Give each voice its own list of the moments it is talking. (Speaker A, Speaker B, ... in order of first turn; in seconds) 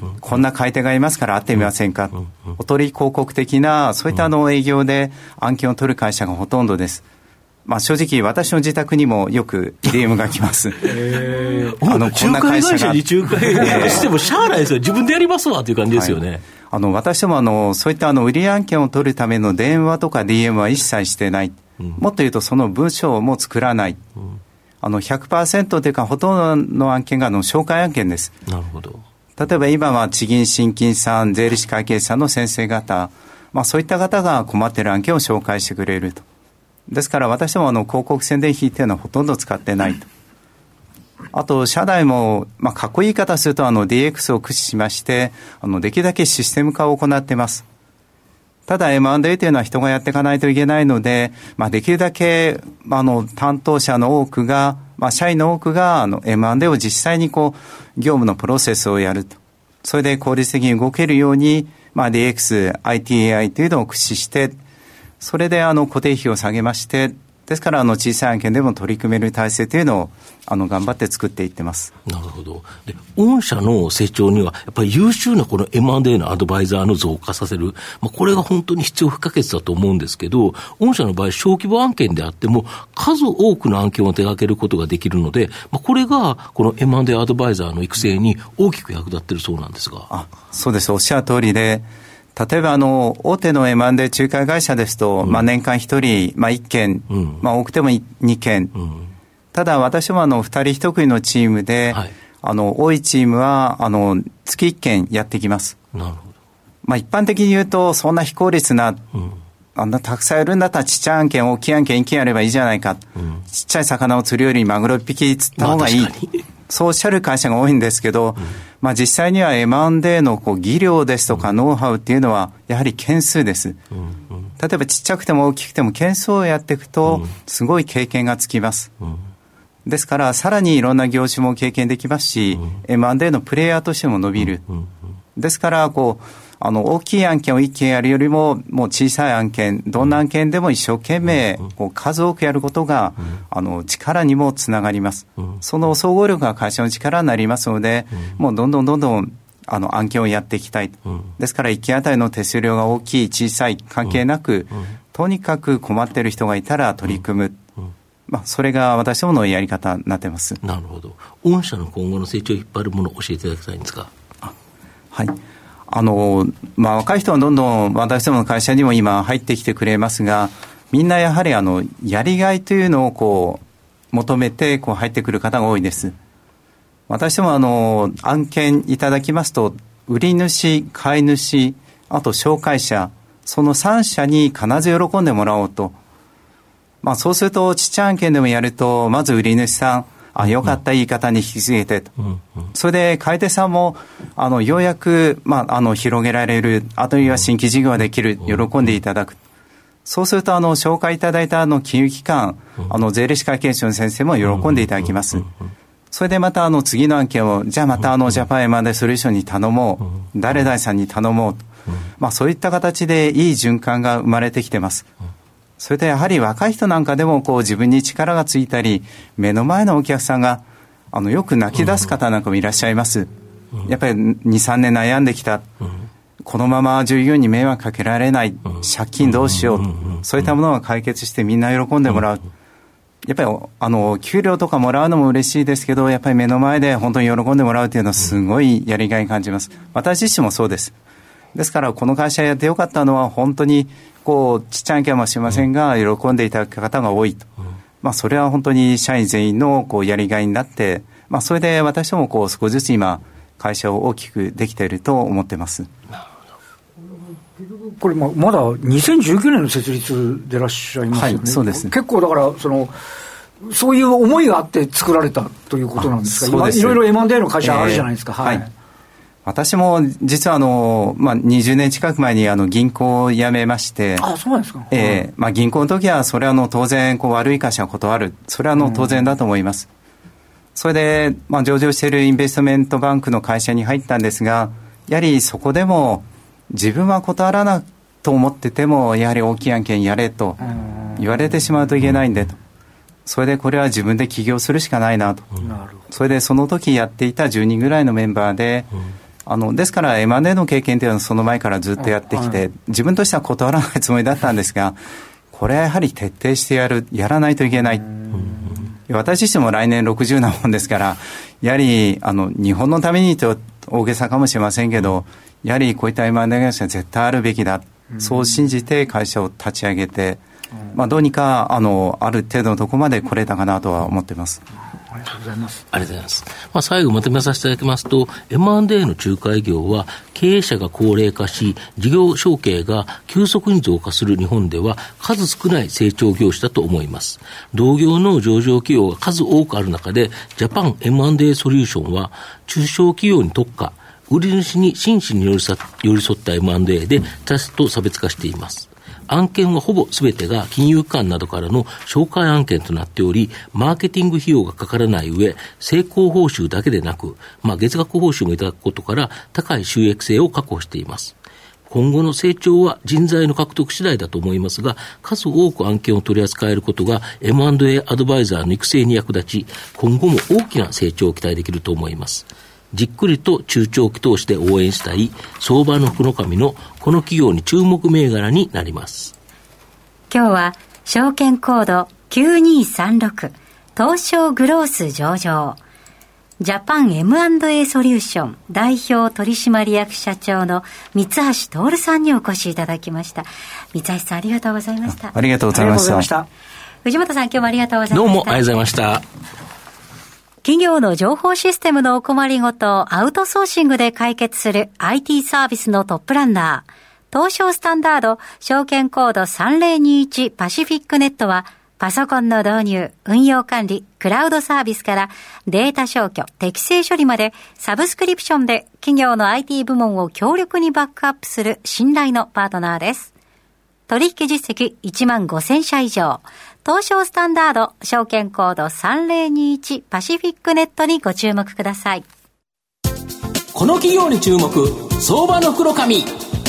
Speaker A: 0.2-7.0, 7.7-10.9, 11.8-13.0, 13.5-14.1, 15.9-24.0, 24.8-28.3, 29.4-36.2, 36.9-40.1, 41.3-47.6, 48.7-64.5, 65.2-71.9, 90.1-98.7, 99.5-105.8, 106.8-109.0, 109.8-116.1, 116.7-123.8, 124.6-128.9, 129.9-134.7, 135.4-157.6, 158.3-160.6, 165.9-176.2, 177.1-186.0, 187.0-192.1, 192.7-199.4, 200.1-205.5, 206.1-211.6, 212.2-215.1, 215.8-223.3, 223.8-225.7, 226.4-232.5, 233.2-240.9, 241.6-247.5, 248.0-255.9, 261.1-261.9, 266.0-267.0, 267.6-268.6, 269.5-274.3, 274.9-279.9, 280.8-290.6, 291.1-292.6, 293.3-295.5, 296.1-298.9, 299.5-305.0, 305.5-308.1, 309.1-324.6, 395.1-396.3
Speaker B: 10.8-16.4, 28.5-29.1, 72.1-90.1, 97.1-97.5, 105.9-106.3, 115.6-116.4, 160.6-164.1, 204.5-204.9, 229.3-230.2, 308.4-308.7, 325.9-361.4, 361.9-379.3, 398.1-399.2
Speaker C: 257.6-262.9, 263.6-268.7, 274.2-275.2, 290.7-291.2, 295.6-296.0, 302.1-302.6, 308.3-308.8, 325.1-325.8, 395.7-396.5
Speaker D: 380.3-385.8, 386.6-395.3, 397.0-398.6, 400.6-423.3, 424.1-432.2
Speaker E: 433.7-436.3